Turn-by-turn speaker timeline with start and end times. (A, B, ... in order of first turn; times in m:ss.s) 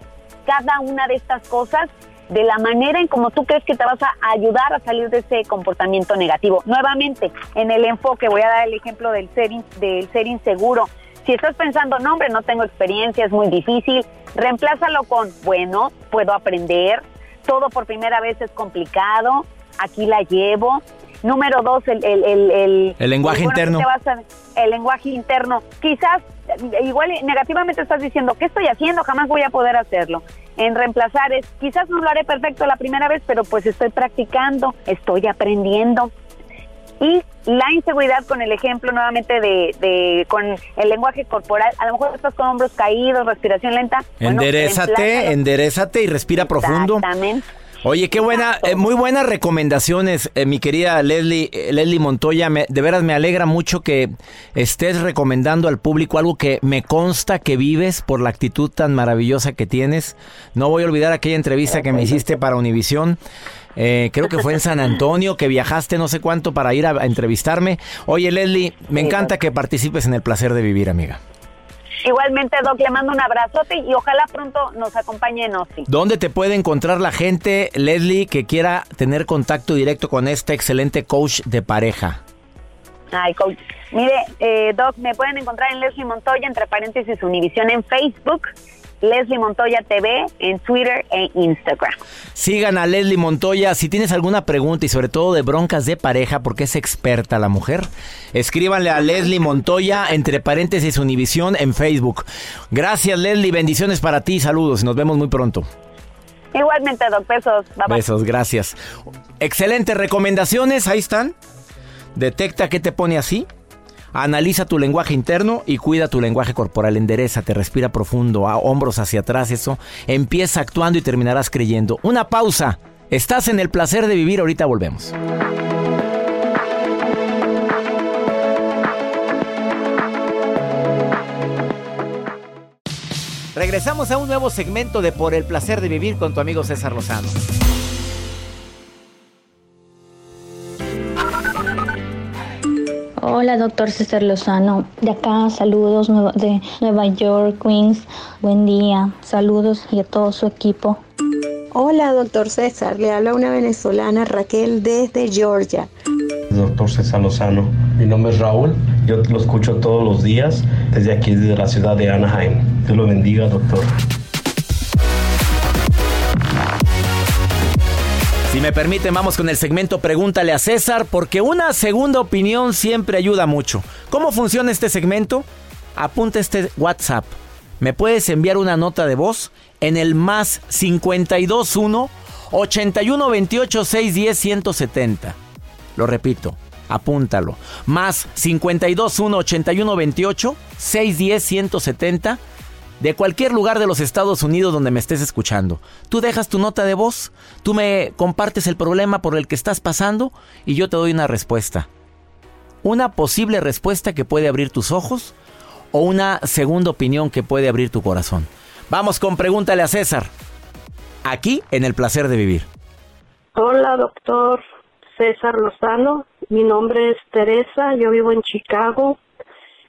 0:00.4-0:36.1 A
0:23.0-0:23.8 B
0:37.0-0:45.3 A
0:44.2-0:47.0 B
0:46.4-0:47.4 A
0:47.8-1:03.2 B
0:48.4-0:48.7 A
1:03.8-1:11.2 B
1:09.0-1:09.3 A
1:12.0-1:15.9 A
1:15.9-1:22.2 B
1:23.1-1:28.5 A
1:29.0-1:32.0 A
1:32.3-1:45.7 B
1:46.5-1:48.0 A
1:47.9-1:48.8 B
1:49.4-1:51.3 B
1:52.1-1:53.5 B
1:54.1-2:05.1 B
2:13.5-2:17.4 B
2:23.2-2:31.0 C
2:31.7-2:35.9 D
2:36.5-2:43.9 E
2:48.5-2:55.4 B
2:56.0-3:05.4 B
3:06.0-3:12.4 B
3:13.0-3:21.9 B
3:22.8-3:25.3 B
3:25.9-3:30.3 B
3:31.2-3:32.7 B
3:33.5-3:34.6 F
3:35.2-3:39.2 F